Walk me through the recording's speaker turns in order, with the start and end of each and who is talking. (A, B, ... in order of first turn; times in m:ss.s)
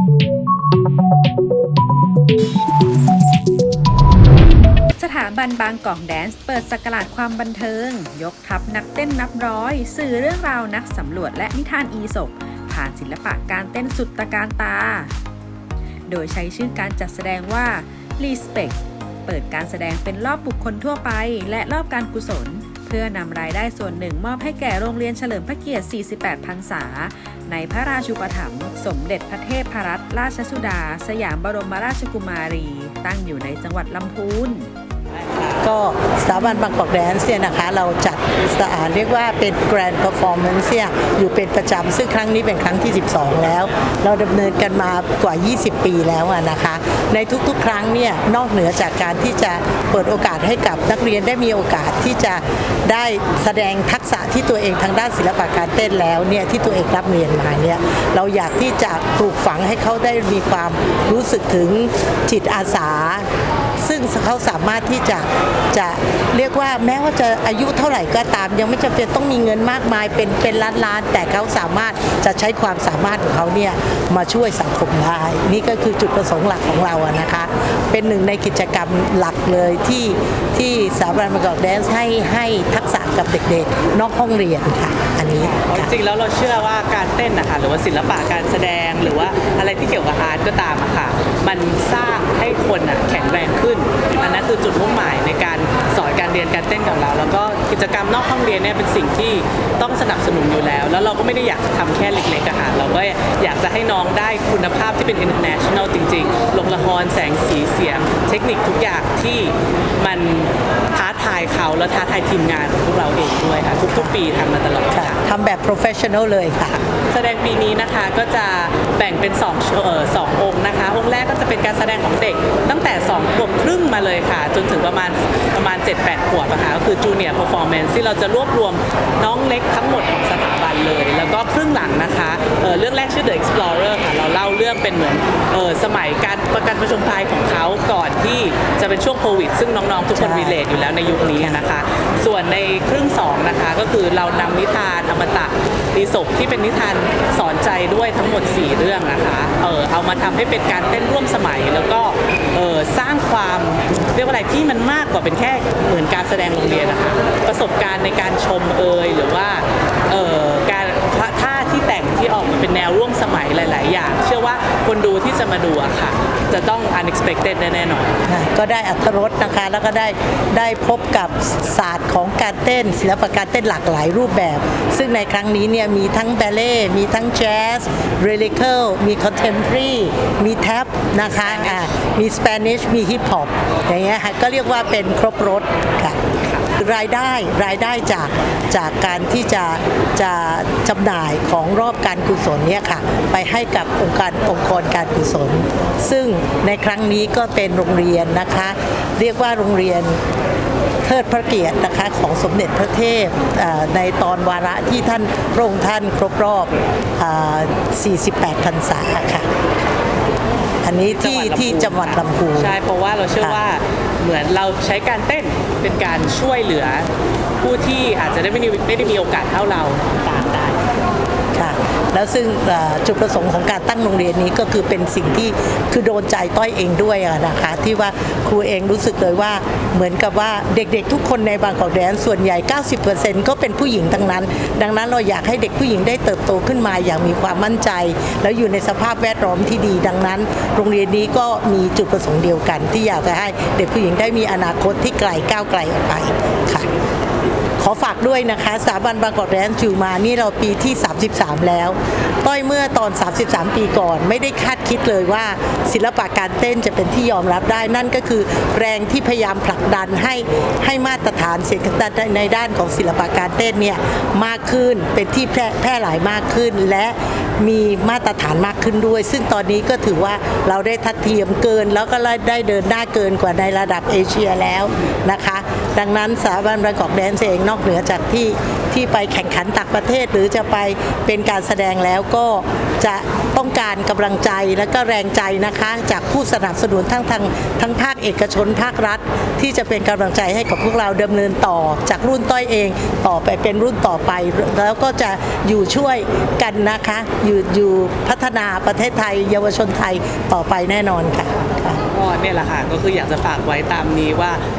0:05.0-0:15.1 A
0:16.1-0:34.7 A
0:35.1-0:35.7 B
0:35.6-1:03.3 C
1:03.8-1:25.9 C
1:25.4-1:55.2 B
1:54.9-1:56.8 C
1:56.9-2:48.1 B
2:20.1-2:20.6 C
2:48.3-3:20.2 C
3:01.2-3:01.9 B
3:21.0-3:29.6 C
3:30.8-3:32.8 C
3:31.0-3:37.1 B
3:33.4-3:33.7 C
3:37.6-3:40.8 B
3:41.6-4:06.9 C
4:07.8-5:02.0 C
5:02.1-5:04.6 B